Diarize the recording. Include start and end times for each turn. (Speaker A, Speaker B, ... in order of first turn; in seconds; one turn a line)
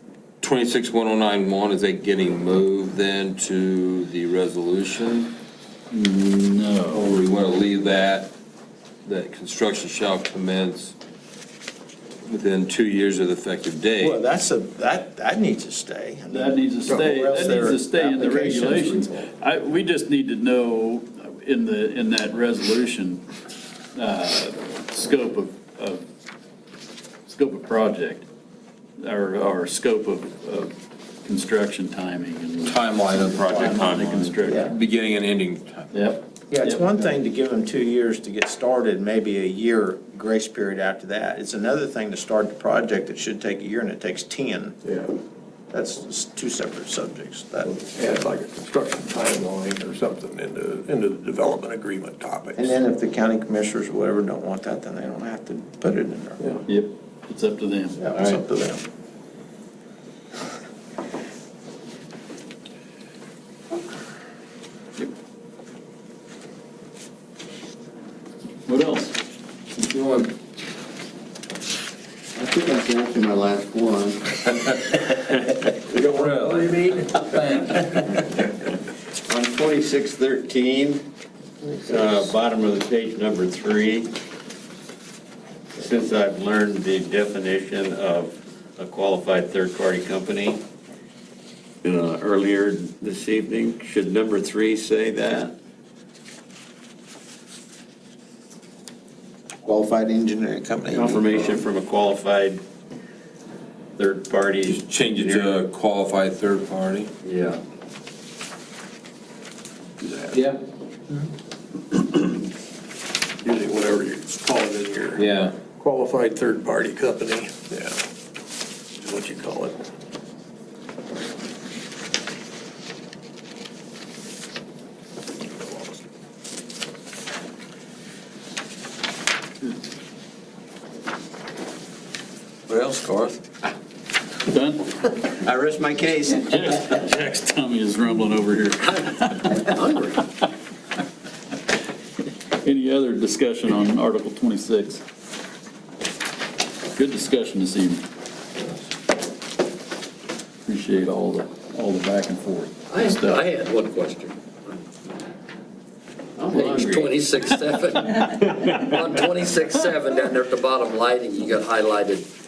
Speaker A: 0.4-5.4
Speaker B: 5.9-7.2
Speaker A: 6.9-8.3
Speaker A: 9.1-10.9
Speaker A: 12.2-14.2
Speaker C: 14.0-19.3
Speaker B: 16.3-23.2
Speaker B: 23.9-26.0
Speaker B: 27.3-28.3
Speaker B: 29.0-30.7
Speaker B: 31.2-34.7
Speaker A: 32.6-36.0
Speaker D: 33.6-34.2
Speaker C: 34.4-34.7
Speaker B: 35.9-36.9
Speaker C: 36.5-44.8
Speaker E: 44.9-45.1
Speaker C: 45.7-47.7
Speaker E: 47.7-52.7
Speaker C: 52.6-56.5
Speaker B: 56.7-58.0
Speaker C: 58.0-58.8
Speaker B: 68.7-69.2
Speaker A: 69.8-70.3
Speaker D: 72.3-75.7
Speaker A: 75.8-78.2
Speaker F: 76.3-77.8
Speaker D: 79.2-81.1
Speaker D: 81.8-84.1
Speaker D: 85.7-90.6
Speaker D: 91.8-95.5
Speaker C: 99.6-101.6
Speaker D: 100.9-102.6
Speaker D: 104.0-105.6
Speaker A: 104.7-107.2
Speaker D: 107.2-107.6
Speaker E: 110.0-110.4
Speaker A: 110.3-110.6
Speaker E: 113.4-118.0
Speaker A: 115.2-115.6
Speaker E: 119.0-119.8
Speaker A: 132.7-133.5
Speaker B: 134.5-134.9
Speaker D: 135.3-136.6
Speaker B: 136.4-139.8
Speaker F: 139.0-140.3
Speaker B: 142.5-145.0
Speaker B: 147.0-148.1
Speaker B: 150.7-153.4
Speaker F: 152.9-154.8
Speaker D: 156.4-157.7
Speaker F: 156.5-162.3
Speaker D: 158.2-159.0